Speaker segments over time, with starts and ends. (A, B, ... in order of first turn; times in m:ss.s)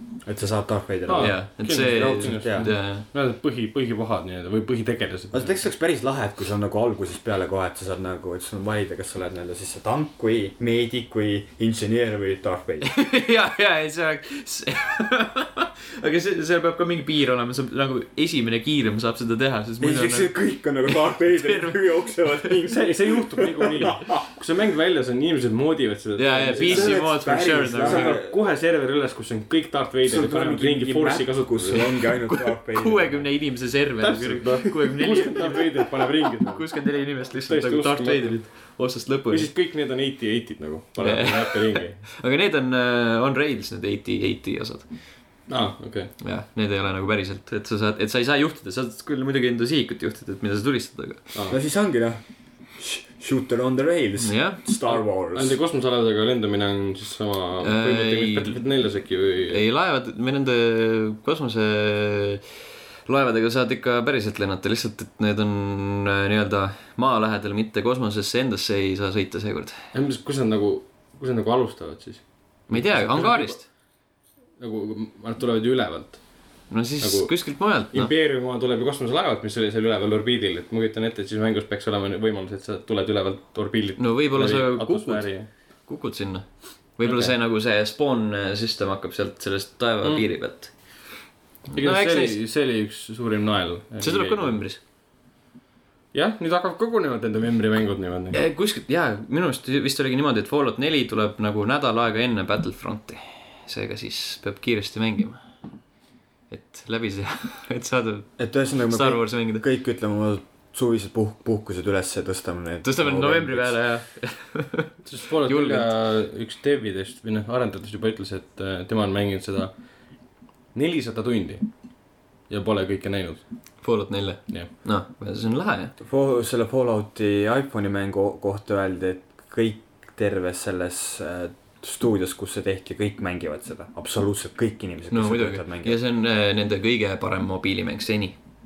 0:00.2-0:02.7 A
0:01.1-0:05.6 B
0:01.2-0:03.0 C
0:05.3-0:12.9 A
0:12.8-0:20.3 C
0:19.8-0:24.2 A
0:20.9-0:22.6 C
0:22.7-0:27.1 B
0:26.2-0:28.1 C
0:26.5-0:28.3 A
0:27.7-0:32.0 B
0:30.0-0:33.3 A
0:32.3-0:39.5 C
0:34.0-0:38.7 B
0:39.3-0:42.1 B
0:41.0-0:45.1 C
0:45.5-0:46.1 B
0:46.2-0:51.3 C
0:51.3-0:51.6 B
0:51.5-0:55.6 A
0:54.2-0:54.6 C
0:54.8-0:59.6 B
0:57.6-0:58.6 C
0:59.5-1:09.8 C
1:09.9-1:13.8 B
1:12.7-1:13.6 C
1:14.6-1:25.5 B
1:16.7-1:18.1 C
1:24.0-1:32.4 C
1:27.0-1:27.3 B
1:30.0-1:30.6 B
1:31.8-1:34.6 B
1:34.0-1:34.8 C
1:36.1-1:38.4 B
1:38.3-1:45.4 C
1:46.5-1:49.6 C
1:48.4-1:53.8 A
1:52.8-1:55.9 C
1:55.0-2:03.4 B
2:03.8-2:05.9 C
2:06.0-2:16.0 A
2:15.1-2:18.4 C